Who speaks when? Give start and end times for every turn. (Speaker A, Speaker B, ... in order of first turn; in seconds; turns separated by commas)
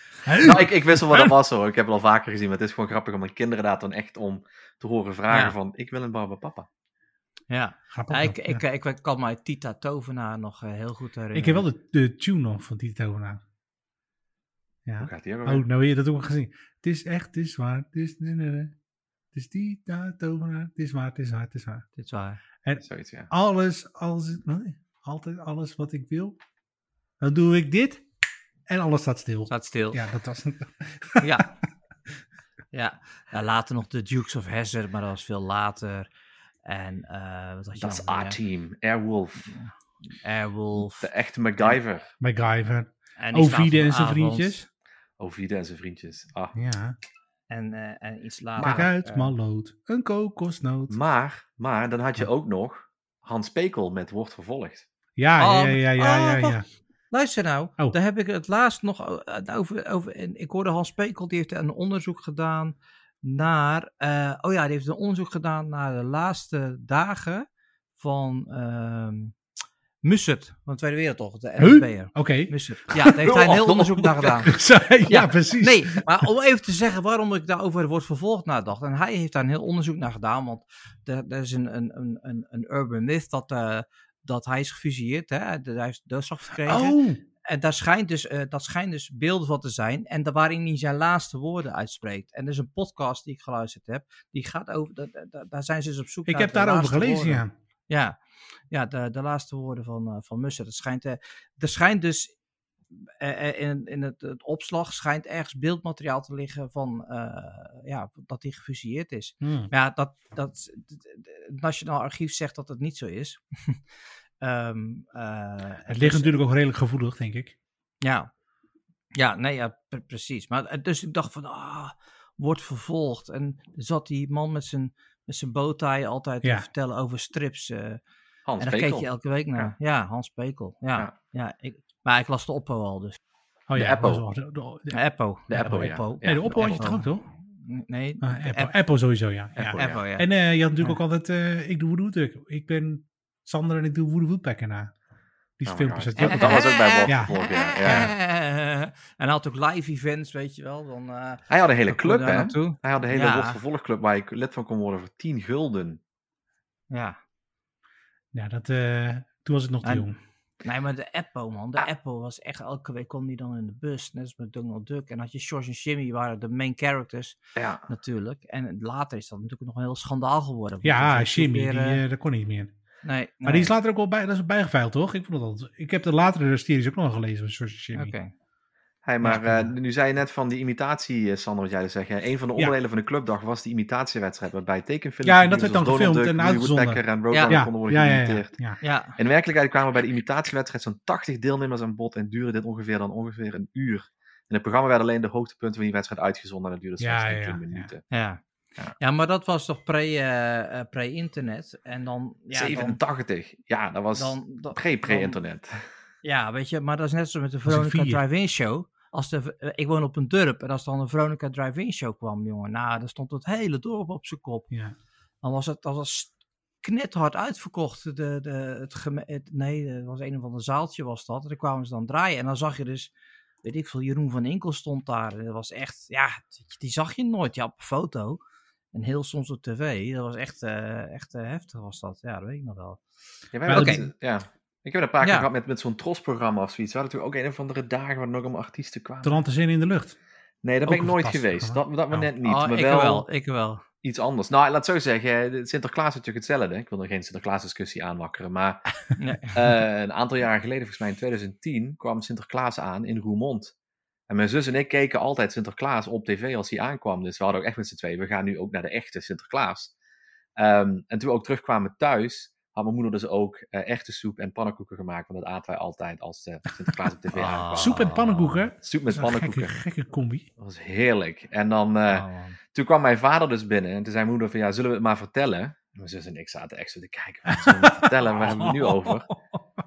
Speaker A: 0.2-1.3, Speaker B: 0.4-6.7, Speaker C: 7.5-11.7, Speaker A: 7.9-8.6, Speaker A: 11.3-13.4, Speaker A: 14.9-18.8, Speaker B: 15.0-15.6, Speaker A: 19.3-21.9, Speaker C: 22.0-22.4, Speaker A: 22.6-26.4, Speaker B: 22.8-23.3, Speaker A: 27.2-28.0, Speaker A: 28.7-31.4, Speaker C: 29.5-30.0, Speaker C: 31.2-31.6, Speaker C: 32.7-36.1, Speaker C: 36.7-38.4, Speaker B: 37.8-39.5, Speaker C: 40.2-41.1, Speaker B: 41.0-42.1, Speaker A: 42.2-44.7, Speaker C: 43.2-44.6, Speaker B: 45.2-46.6, Speaker A: 46.5-47.0, Speaker C: 47.5-49.3, Speaker A: 48.6-51.0, Speaker B: 50.9-54.9, Speaker A: 55.2-56.6, Speaker C: 55.4-67.5, Speaker C: 68.0-69.4, Speaker C: 70.0-102.3, Speaker A: 71.6-73.2, Speaker B: 73.2-74.3, Speaker A: 74.5-76.3, Speaker A: 86.7-87.2, Speaker A: 96.3-97.5, Speaker C: 102.9-113.9, Speaker A: 109.4-109.7, Speaker C: 114.4-116.3, Speaker A: 115.9-117.5, Speaker C: 118.0-118.3, Speaker C: 119.1-128.0, Speaker B: 128.5-129.7, Speaker C: 128.6-133.2, Speaker A: 133.7-135.0, Speaker B: 133.8-134.2, Speaker C: 134.9-137.1, Speaker B: 135.5-136.9, Speaker A: 135.6-137.3, Speaker C: 137.6-138.7, Speaker A: 138.2-144.9, Speaker B: 139.6-140.0, Speaker C: 139.7-140.3, Speaker A: 145.6-147.3, Speaker B: 145.7-148.1, Speaker C: 146.2-153.6, Speaker A: 147.8-148.1, Speaker B: 151.5-156.0, Speaker C: 156.9-157.2, Speaker A: 158.3-160.2, Speaker C: 159.8-172.0, Speaker B: 167.6-167.8, Speaker A: 170.8-172.7, Speaker C: 173.0-173.7, Speaker A: 173.4-178.1, Speaker C: 177.9-178.3, Speaker B: 179.1-188.6, Speaker A: 179.2-179.8, Speaker A: 185.2-188.8, Speaker C: 187.3-187.6, Speaker C: 188.8-189.2, Speaker B: 189.2-198.0, Speaker A: 197.0-197.9, Speaker C: 198.1-198.4, Speaker C: 199.0-203.0, Speaker B: 202.5-205.9, Speaker C: 204.2-205.4, Speaker C: 206.2-214.7, Speaker A: 207.7-208.2, Speaker C: 215.4-223.1, Speaker C: 223.6-228.4, Speaker C: 228.9-233.0, Speaker B: 233.5-239.4, Speaker A: 233.7-234.0, Speaker C: 233.7-234.1, Speaker C: 235.2-235.5, Speaker A: 239.2-240.2, Speaker B: 240.6-243.2, Speaker A: 240.9-242.3, Speaker C: 242.4-243.8, Speaker B: 244.0-253.7, Speaker C: 249.2-249.6, Speaker B: 254.3-259.9, Speaker B: 260.6-268.2, Speaker C: 267.3-268.5, Speaker A: 267.8-270.5, Speaker B: 268.8-269.8, Speaker B: 270.6-279.3, Speaker C: 272.1-272.6, Speaker A: 277.5-279.6